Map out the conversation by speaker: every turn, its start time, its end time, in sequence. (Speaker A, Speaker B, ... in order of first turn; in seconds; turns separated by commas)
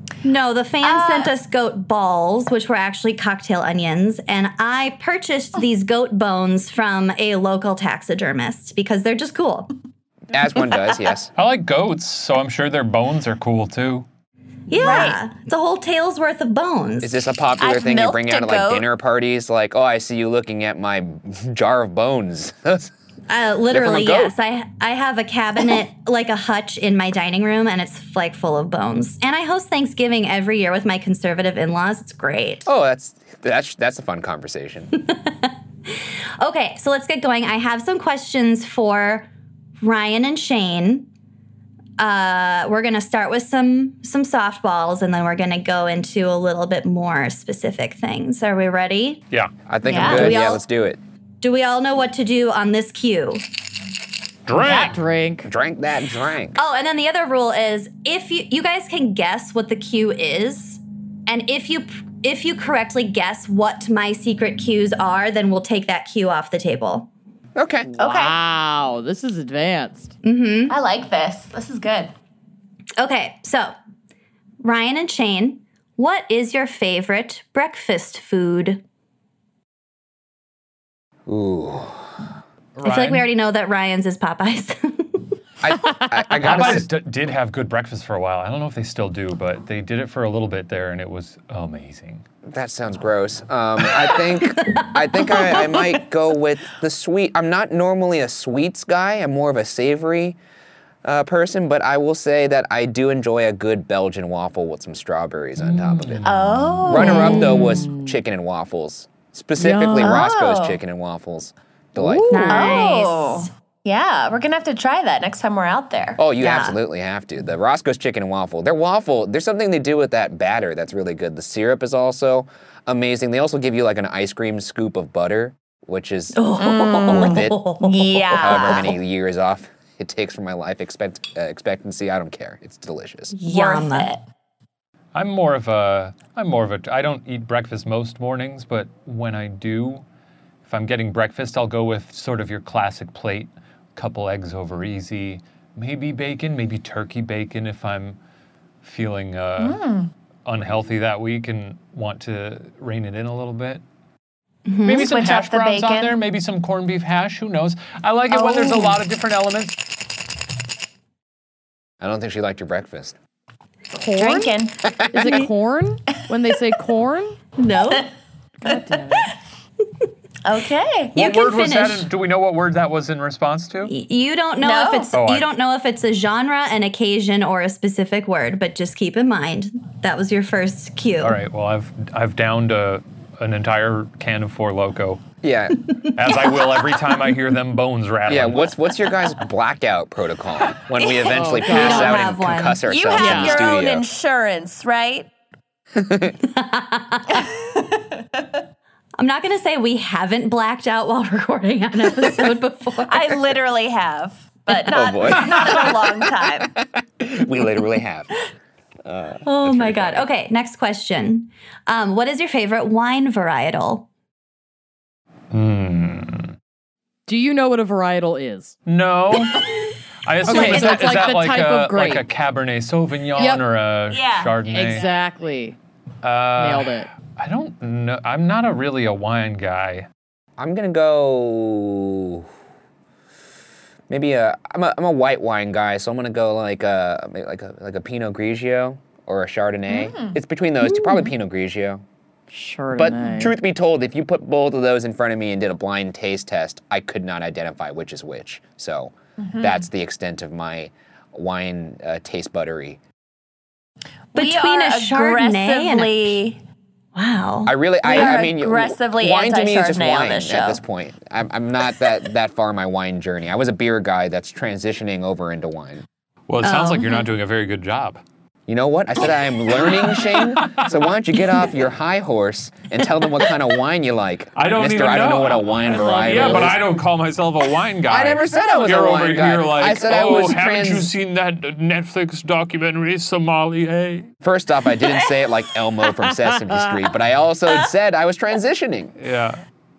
Speaker A: 0.2-9.7, Speaker B: 0.8-1.3, Speaker C: 10.3-11.3, Speaker D: 11.3-14.1, Speaker A: 14.7-17.2, Speaker B: 14.7-15.2, Speaker C: 17.0-22.9, Speaker B: 17.6-18.9, Speaker A: 23.3-32.7, Speaker C: 23.7-24.3, Speaker C: 32.6-34.9, Speaker A: 35.1-39.3, Speaker A: 39.8-41.1, Speaker A: 42.0-49.2, Speaker C: 49.7-51.0, Speaker B: 49.8-50.3, Speaker A: 49.9-50.6, Speaker A: 51.4-53.4, Speaker D: 54.5-55.0, Speaker E: 54.5-55.5, Speaker C: 55.4-56.6, Speaker A: 56.5-67.1, Speaker C: 67.5-67.9, Speaker E: 67.9-70.1, Speaker B: 68.0-68.3, Speaker A: 70.2-70.7, Speaker B: 70.7-72.1, Speaker A: 73.0-73.7, Speaker A: 74.6-78.8, Speaker C: 81.3-82.1, Speaker D: 82.8-83.2, Speaker A: 82.8-85.2, Speaker C: 85.6-86.9, Speaker D: 86.3-92.2, Speaker C: 92.5-100.4, Speaker A: 94.7-94.9, Speaker B: 95.5-95.9, Speaker C: 101.0-106.3, Speaker D: 105.6-107.2, Speaker B: 106.2-107.5, Speaker C: 106.9-112.4, Speaker E: 107.0-108.1, Speaker A: 107.1-107.5, Speaker E: 109.6-110.2, Speaker B: 110.0-110.8, Speaker E: 112.0-112.8, Speaker A: 112.3-113.5, Speaker B: 112.5-116.2, Speaker C: 116.2-126.4, Speaker A: 116.4-116.8, Speaker A: 126.3-128.9, Speaker B: 126.6-128.9, Speaker C: 127.0-127.7, Speaker C: 128.4-133.3, Speaker A: 133.3-134.1, Speaker B: 133.5-134.2, Speaker D: 135.1-140.0, Speaker D: 140.6-148.2, Speaker D: 148.8-149.8, Speaker B: 149.6-150.1, Speaker D: 150.4-153.8, Speaker A: 154.7-155.1, Speaker D: 154.8-159.8, Speaker B: 154.9-156.2, Speaker B: 158.3-159.0, Speaker C: 162.0-163.1, Speaker E: 163.9-164.6, Speaker B: 164.2-164.8, Speaker C: 164.8-165.5, Speaker E: 165.1-167.4, Speaker A: 167.6-168.1, Speaker E: 168.6-169.3, Speaker B: 170.4-171.1, Speaker D: 171.1-173.9, Speaker A: 171.2-172.1, Speaker A: 173.9-181.4, Speaker B: 174.6-175.1, Speaker D: 175.1-175.5, Speaker D: 181.2-185.2, Speaker C: 185.4-185.8, Speaker D: 186.1-188.7, Speaker C: 188.3-194.0, Speaker E: 191.3-192.2, Speaker A: 191.6-192.8, Speaker B: 192.9-195.3, Speaker E: 193.1-193.6, Speaker C: 195.9-196.3, Speaker A: 196.5-197.5, Speaker A: 199.2-203.5, Speaker B: 203.0-206.7, Speaker C: 204.9-206.0, Speaker C: 206.8-208.3, Speaker C: 209.0-210.2, Speaker A: 209.4-214.1, Speaker D: 215.5-216.5, Speaker E: 217.3-218.8, Speaker D: 218.8-219.7, Speaker D: 220.2-225.1, Speaker E: 220.4-222.2, Speaker A: 220.5-221.0, Speaker E: 223.3-223.6, Speaker B: 224.1-224.6, Speaker E: 224.7-225.8, Speaker D: 226.2-230.1, Speaker E: 226.6-227.1, Speaker C: 230.6-232.4, Speaker C: 234.1-242.0, Speaker B: 239.9-240.4, Speaker A: 240.9-241.3, Speaker E: 242.5-243.6, Speaker C: 242.9-253.0, Speaker B: 249.4-249.8, Speaker B: 254.3-256.6, Speaker A: 254.3-256.4, Speaker A: 257.1-257.7, Speaker C: 257.6-266.0, Speaker B: 258.0-260.8, Speaker D: 266.5-268.2, Speaker A: 266.6-267.1, Speaker C: 268.7-276.8, Speaker D: 270.2-270.9, Speaker D: 274.5-284.3, Speaker B: 276.2-276.6, Speaker C: 278.1-281.1, Speaker C: 284.4-289.1, Speaker B: 285.0-285.4, Speaker D: 289.2-289.6